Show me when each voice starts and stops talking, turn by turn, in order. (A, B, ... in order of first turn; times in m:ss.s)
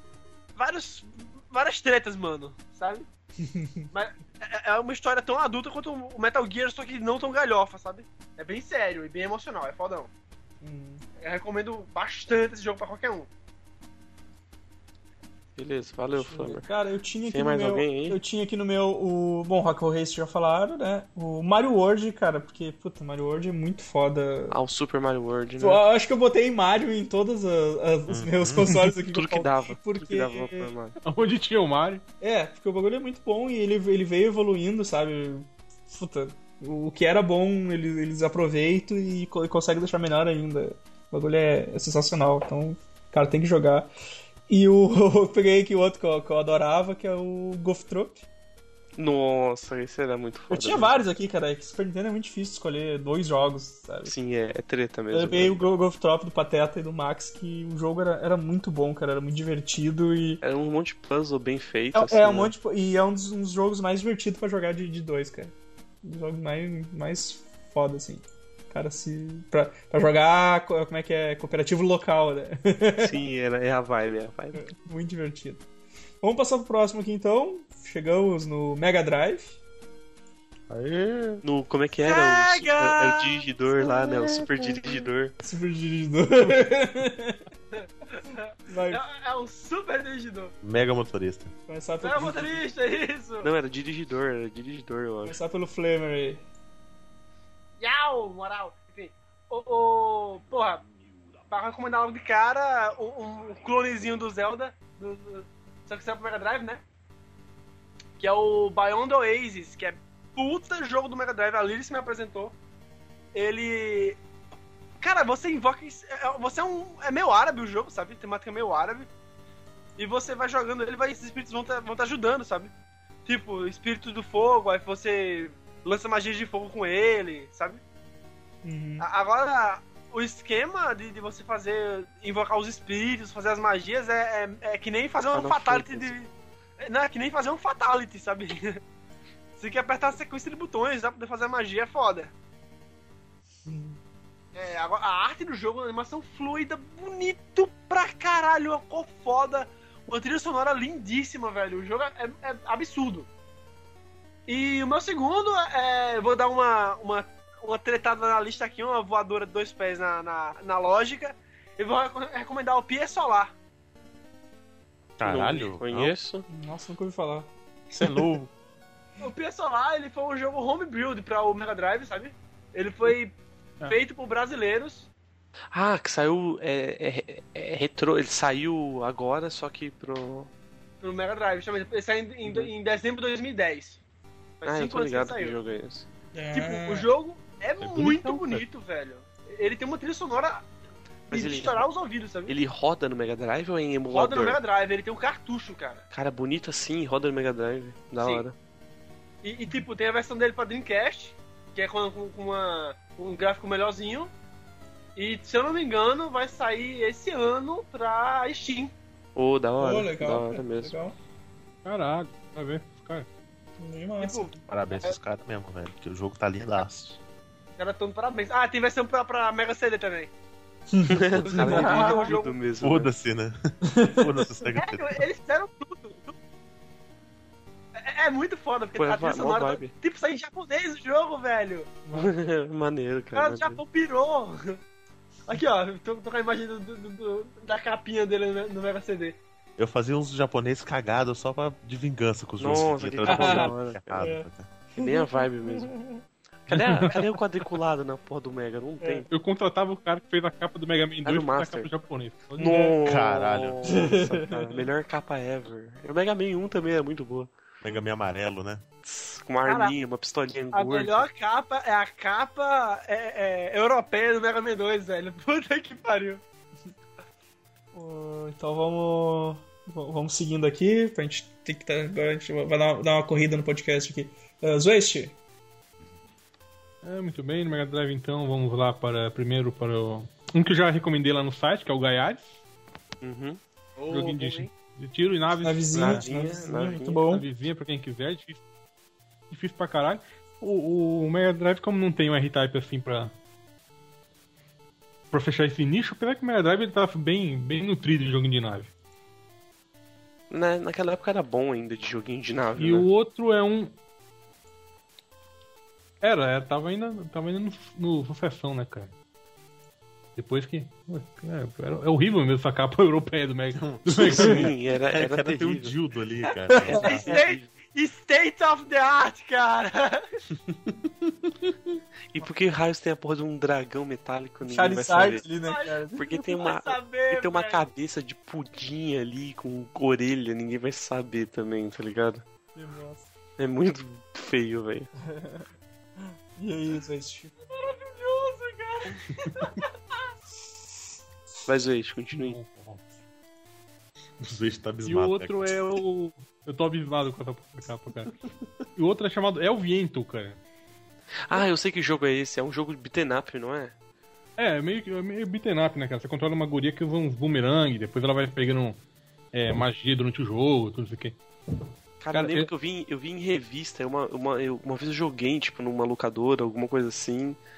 0:00.5-0:03.1 A
0:03.4-0:03.9 B
0:03.9-0:10.1 A
0:10.6-0:11.0 B
0:11.2-0:13.3 A
0:15.6-0:16.6 C
0:16.1-0:24.6 B
0:17.3-0:18.2 C
0:24.5-0:25.8 C
0:25.6-0:30.7 B
0:28.1-0:28.8 D
0:29.1-0:31.0 C
0:31.0-0:32.0 E
0:32.2-0:43.9 B
0:44.5-0:48.2 B
0:49.0-0:51.0 C
0:50.5-0:54.1 B
0:54.0-0:55.7 C
0:55.1-1:00.4 B
1:00.4-1:02.5 C
1:01.9-1:13.2 B
1:13.0-1:14.6 C
1:14.5-1:15.6 B
1:16.2-1:19.6 B
1:20.7-1:21.4 D
1:21.4-1:25.3 C
1:22.0-1:23.4 A
1:23.8-1:24.9 D
1:25.4-1:27.4 B
1:27.7-1:30.5 A
1:28.7-1:29.0 B
1:30.6-1:31.5 D
1:31.7-1:32.6 B
1:32.0-1:33.5 A
1:33.4-1:35.4 C
1:35.2-1:36.4 B
1:37.8-1:40.9 A
1:41.5-1:46.8 A
1:48.2-1:52.6 A
1:53.3-1:54.2 A
1:55.0-1:59.1 A
2:00.0-2:02.7 A
2:03.2-2:07.8 A
2:08.6-2:09.0 B
2:09.0-2:18.8 A
2:15.3-2:16.1 C
2:19.6-2:22.3 A
2:23.6-2:24.0 B
2:24.5-2:33.3 A
2:34.5-2:43.5 A
2:45.2-2:46.2 D
2:45.2-2:46.5 C
2:46.5-2:47.5 B
2:47.9-2:48.5 D
2:49.2-2:55.1 A
2:55.7-3:00.5 C
3:01.0-3:04.0 A
3:02.4-3:02.7 C
3:04.6-3:05.6 A
3:04.6-3:06.1 C
3:06.3-3:07.1 B
3:06.5-3:10.6 A
3:07.8-3:08.6 E
3:11.3-3:12.5 A
3:11.3-3:11.8 C
3:12.5-3:14.6 C
3:14.1-3:16.0 A
3:16.1-3:18.5 C
3:18.2-3:18.4 A
3:19.4-3:24.3 A
3:25.2-3:28.9 A
3:29.4-3:30.9 C
3:29.8-3:31.2 B
3:31.8-3:33.3 E
3:33.8-3:34.5 B
3:34.2-3:35.2 A
3:34.7-3:37.2 D
3:37.8-3:40.3 A
3:40.9-3:42.3 B
3:41.0-3:43.1 C
3:41.5-3:42.6 A
3:42.8-3:45.2 D
3:43.9-3:44.3 B
3:44.8-3:46.3 A
3:48.0-3:52.0 A
3:49.0-3:49.9 C
3:52.0-3:52.3 B
3:52.1-3:53.8 C
3:53.3-3:54.8 A
3:55.5-3:59.4 A
3:59.8-4:04.7 D
4:02.6-4:04.2 C
4:03.2-4:04.4 B
4:05.0-4:05.9 C
4:05.0-4:06.2 B
4:06.7-4:09.3 C
4:06.7-4:07.1 E
4:09.0-4:09.3 B
4:09.3-4:12.9 E
4:11.2-4:11.9 C
4:12.6-4:17.5 C
4:13.0-4:14.0 D
4:13.9-4:14.8 B
4:17.8-4:18.8 D
4:19.0-4:21.3 C
4:19.6-4:19.9 A
4:20.7-4:26.4 A
4:27.9-4:35.4 B
4:37.0-4:42.6 E
4:43.2-4:43.6 C
4:44.0-4:44.7 A
4:44.1-4:46.2 E
4:45.6-4:47.4 B
4:45.9-4:47.2 C
4:47.3-4:48.6 E
4:49.5-4:53.3 E
4:55.3-4:58.9 E
5:00.5-5:03.1 C
5:02.8-5:03.9 E
5:06.2-5:09.1 E
5:10.4-5:14.7 E
5:13.8-5:17.2 D
5:14.2-5:16.0 C
5:16.8-5:17.3 B
5:16.9-5:17.7 C
5:16.9-5:20.2 A
5:20.6-5:21.3 D
5:22.3-5:25.4 C
5:24.6-5:26.3 B
5:25.6-5:26.0 A
5:26.1-5:32.4 C
5:26.6-5:27.8 A
5:32.7-5:33.3 B
5:33.6-5:35.1 C
5:35.3-5:35.6 B
5:36.6-5:37.5 B
5:37.7-5:39.9 A
5:41.6-5:42.6 C
5:42.3-5:43.0 E
5:44.4-5:45.8 D
5:45.0-5:48.4 E
5:48.9-5:50.6 E
5:51.4-5:53.9 C
5:54.6-5:59.0 E
5:59.5-6:01.4 E
6:02.2-6:07.6 C
6:02.3-6:02.7 E